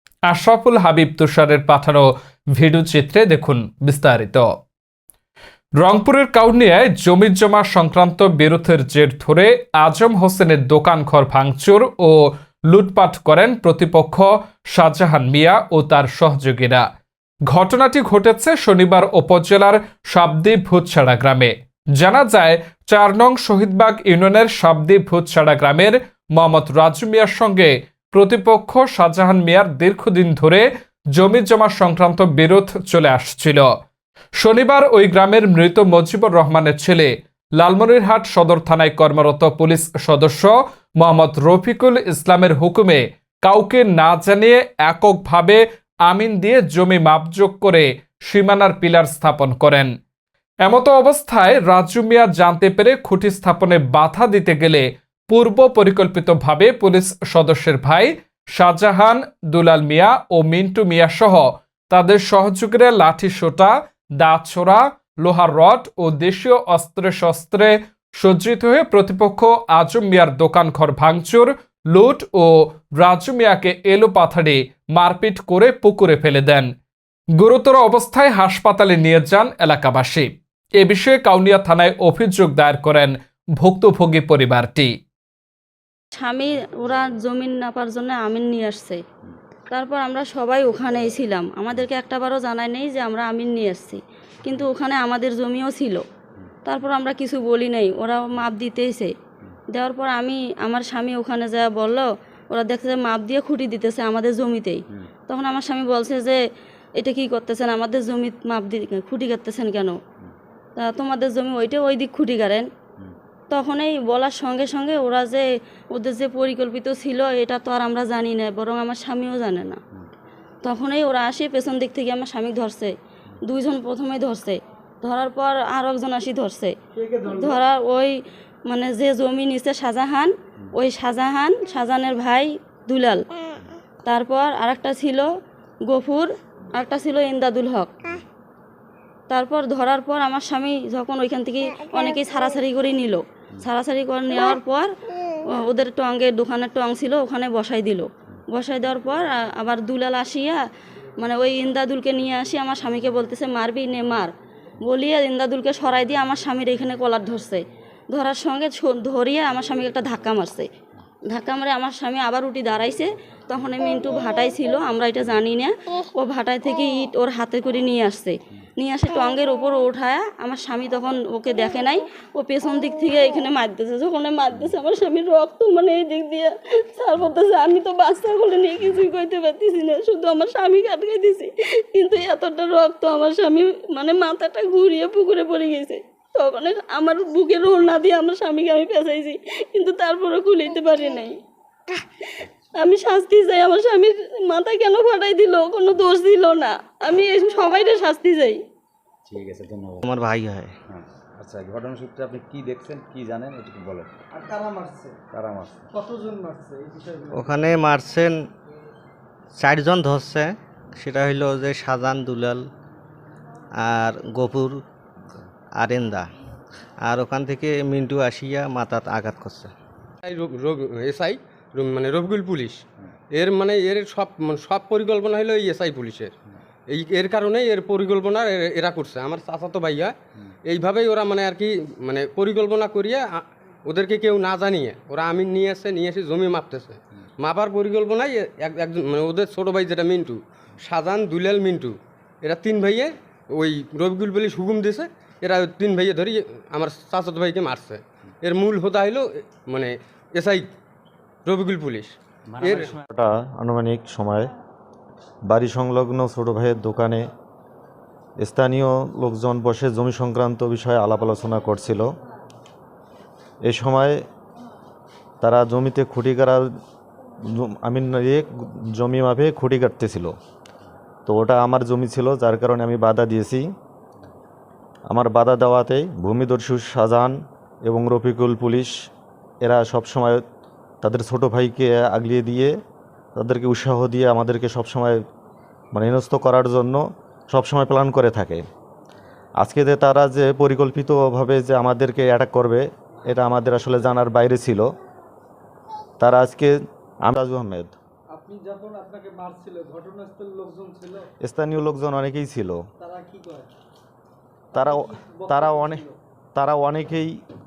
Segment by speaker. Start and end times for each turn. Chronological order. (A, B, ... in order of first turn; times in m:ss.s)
0:00.3-0:04.5 A
0:05.8-0:16.8 A
0:17.5-0:33.7 A
0:34.4-0:49.9 A
0:50.6-1:16.7 A
1:17.4-1:24.9 A
1:26.2-1:29.0 B
1:29.7-1:36.0 B
1:36.6-1:39.1 B
1:39.7-1:46.4 B
1:47.0-1:50.0 B
1:50.8-1:52.6 B
1:53.5-1:59.8 B
2:00.6-2:02.9 B
2:03.5-2:06.7 B
2:07.0-2:07.6 C
2:07.2-2:08.1 B
2:08.7-2:13.2 B
2:14.0-2:15.3 B
2:15.9-2:17.9 B
2:19.3-2:24.9 B
2:25.6-2:30.6 B
2:31.2-2:34.3 B
2:34.8-2:37.6 B
2:38.1-2:40.7 B
2:41.3-3:11.4 B
3:12.8-3:18.6 B
3:19.3-3:20.1 D
3:20.0-3:20.7 E
3:20.9-3:24.1 D
3:24.4-3:25.2 C
3:25.3-3:25.9 D
3:25.9-3:27.4 C
3:27.3-3:28.5 E
3:29.6-3:32.7 E
3:33.8-3:34.8 E
3:35.7-3:36.3 E
3:37.0-3:39.7 E
3:40.2-3:42.8 F
3:43.4-3:46.3 F
3:46.9-3:50.2 F
3:50.7-4:10.7 F
4:11.4-4:12.9 F
4:12.6-4:13.0 D
4:13.1-4:14.5 G
4:15.5-4:17.3 G
4:18.4-4:22.1 G
4:23.6-4:24.2 G
4:25.4-4:26.6 G
4:27.5-4:30.3 G
4:31.2-4:33.6 G
4:35.1-4:38.9 G
4:39.6-4:40.4 G
4:41.0-4:42.7 G
4:43.4-4:45.2 G
4:45.9-4:48.6 G
4:49.6-4:54.8 G
4:56.2-4:56.7 G
4:57.2-4:57.9 G
4:58.3-5:01.2 C
5:01.4-5:02.8 G
5:03.0-5:03.7 C
5:04.7-5:06.0 G
5:04.8-5:06.1 C
5:06.5-5:07.4 G